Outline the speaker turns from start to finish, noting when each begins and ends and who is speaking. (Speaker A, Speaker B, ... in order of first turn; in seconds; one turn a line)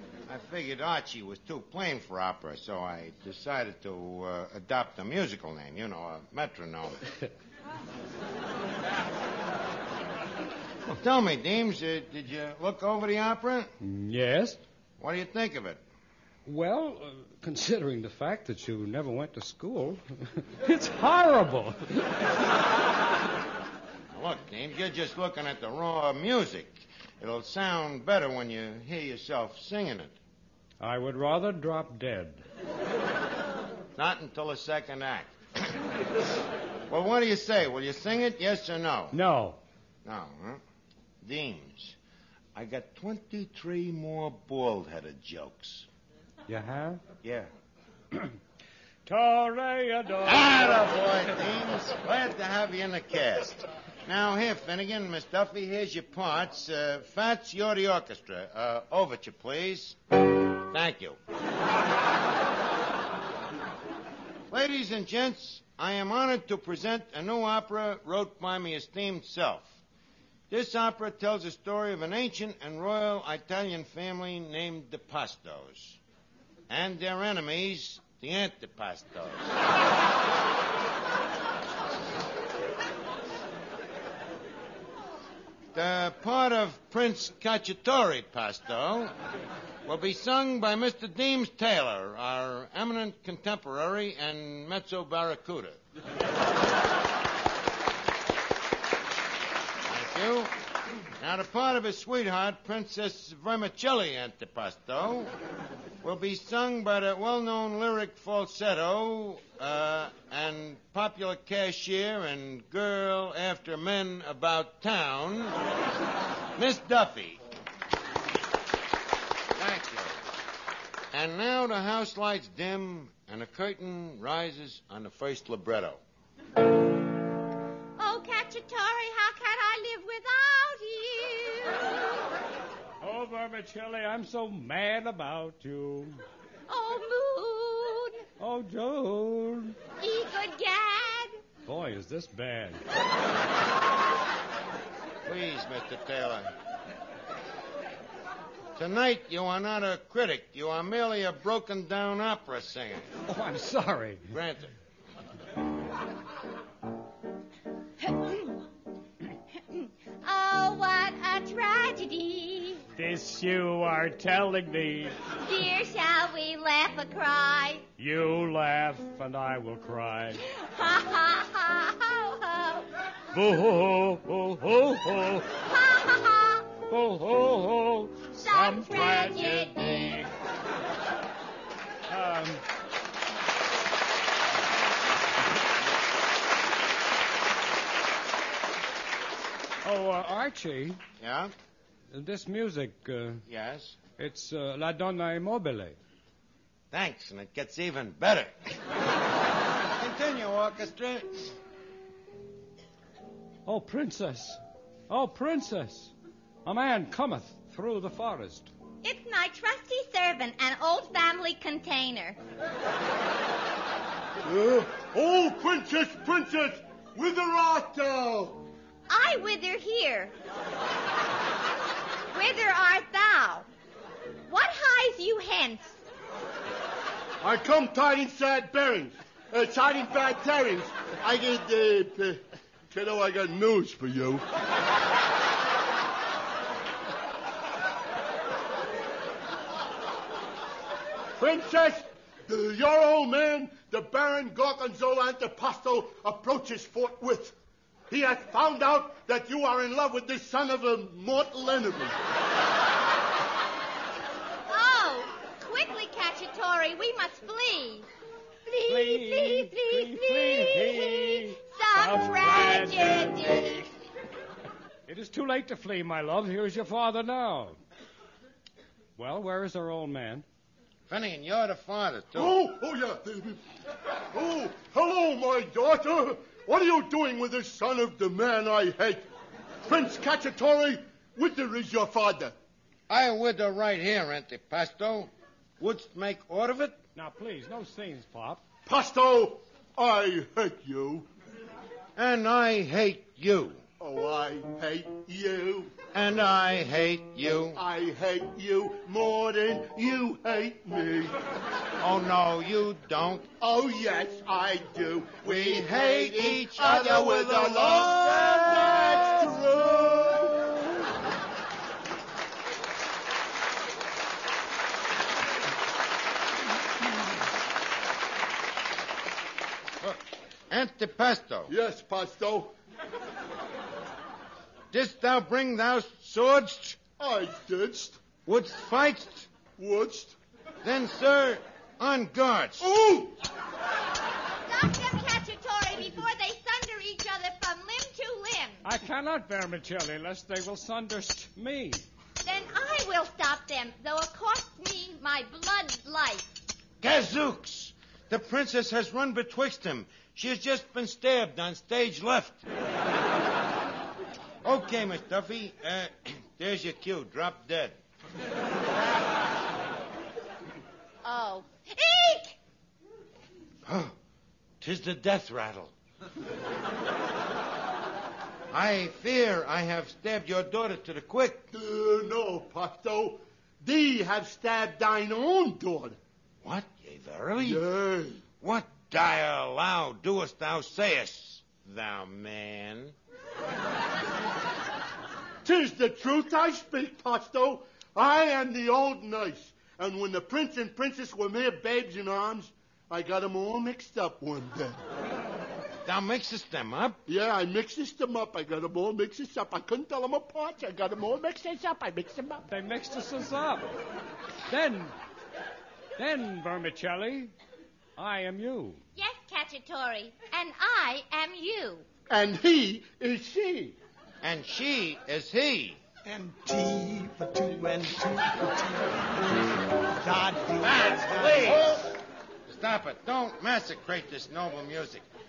Speaker A: 0.3-7.0
Speaker A: 10.9-13.7
Speaker B: 13.8-14.6
Speaker A: 15.0-15.8
Speaker B: 16.4-22.1
Speaker A: 24.1-30.1
Speaker B: 30.8-32.4
Speaker A: 34.0-35.8
Speaker A: 36.9-39.2
Speaker B: 39.1-39.6
Speaker A: 40.0-40.6
Speaker A: 41.2-42.0
Speaker A: 42.5-45.9
Speaker B: 46.5-47.0
Speaker A: 47.2-47.5
Speaker B: 49.0-50.7
Speaker A: 50.2-60.0
Speaker A: 60.6-61.2
Speaker A: 64.5-69.8
Speaker A: 70.5-76.0
Speaker A: 76.7-79.5
Speaker A: 85.7-89.1
Speaker A: 89.8-95.8
Speaker A: 99.8-100.5
Speaker A: 101.2-105.3
Speaker A: 106.0-115.6
Speaker A: 116.5-117.4
Speaker A: 119.5-120.2
Speaker A: 121.1-126.0
Speaker C: 128.0-131.8
Speaker B: 133.0-136.2
Speaker C: 136.7-138.2
Speaker B: 138.4-139.8
Speaker C: 140.0-141.4
Speaker B: 141.7-142.8
Speaker A: 145.2-146.5
Speaker A: 148.8-153.1
Speaker B: 153.3-154.3
Speaker A: 154.3-154.7
Speaker C: 158.0-158.6
Speaker C: 159.7-162.8
Speaker B: 162.9-165.1
Speaker C: 165.4-167.8
Speaker B: 168.0-170.4
Speaker C: 170.4-172.9
Speaker B: 173.3-175.5
Speaker C: 175.6-176.7
Speaker B: 176.9-180.3
Speaker C: 178.3-180.2
Speaker B: 182.1-182.6
Speaker B: 189.8-191.0
Speaker A: 191.2-191.5
Speaker B: 192.1-193.4
Speaker A: 193.5-194.0
Speaker B: 194.2-195.9
Speaker A: 196.9-198.7
Speaker A: 199.9-201.5
Speaker B: 203.7-206.1
Speaker B: 206.6-208.7
Speaker C: 209.0-212.4
Speaker D: 214.4-218.6
Speaker C: 219.1-220.3
Speaker C: 222.3-223.7
Speaker C: 224.5-226.0
Speaker D: 227.4-234.4
Speaker D: 241.4-247.5
Speaker D: 248.1-252.1
Speaker C: 254.7-258.1
Speaker C: 258.7-263.9
Speaker B: 258.9-263.8
Speaker B: 265.1-267.8
Speaker B: 269.2-270.4
Speaker A: 271.1-272.6
Speaker D: 272.3-273.6
Speaker D: 274.3-279.2
Speaker D: 279.9-282.5
Speaker A: 283.1-287.0
Speaker B: 287.1-288.6
Speaker D: 288.9-291.3
Speaker A: 292.1-293.8
Speaker D: 294.0-295.9
Speaker A: 296.1-297.8
Speaker D: 297.7-301.4
Speaker A: 302.0-303.5
Speaker D: 303.6-310.7
Speaker A: 305.4-309.5
Speaker A: 320.0-321.7
Speaker D: 321.7-322.7
Speaker A: 324.9-327.0
Speaker D: 327.2-328.2
Speaker A: 328.4-329.5
Speaker D: 329.8-330.4
Speaker A: 330.8-332.9
Speaker D: 332.8-333.3
Speaker C: 334.6-338.8
Speaker B: 338.8-342.0
Speaker C: 342.4-346.6
Speaker A: 347.0-352.6
Speaker A: 354.6-358.0
Speaker C: 361.2-362.6
Speaker A: 363.8-364.1
Speaker A: 364.8-365.9
Speaker A: 368.7-371.7
Speaker D: 371.7-376.2
Speaker A: 376.6-377.8
Speaker D: 377.6-378.4
Speaker A: 378.6-383.1
Speaker D: 385.6-395.0
Speaker A: 396.0-397.2
Speaker D: 397.3-402.6
Speaker B: 402.7-403.9
Speaker B: 404.7-405.1
Speaker B: 406.2-407.5
Speaker B: 408.2-409.0
Speaker C: 409.1-412.1
Speaker D: 412.3-414.0
Speaker A: 414.4-416.0
Speaker E: 416.2-419.2
Speaker E: 420.1-422.0
Speaker A: 420.8-422.0
Speaker A: 422.7-425.2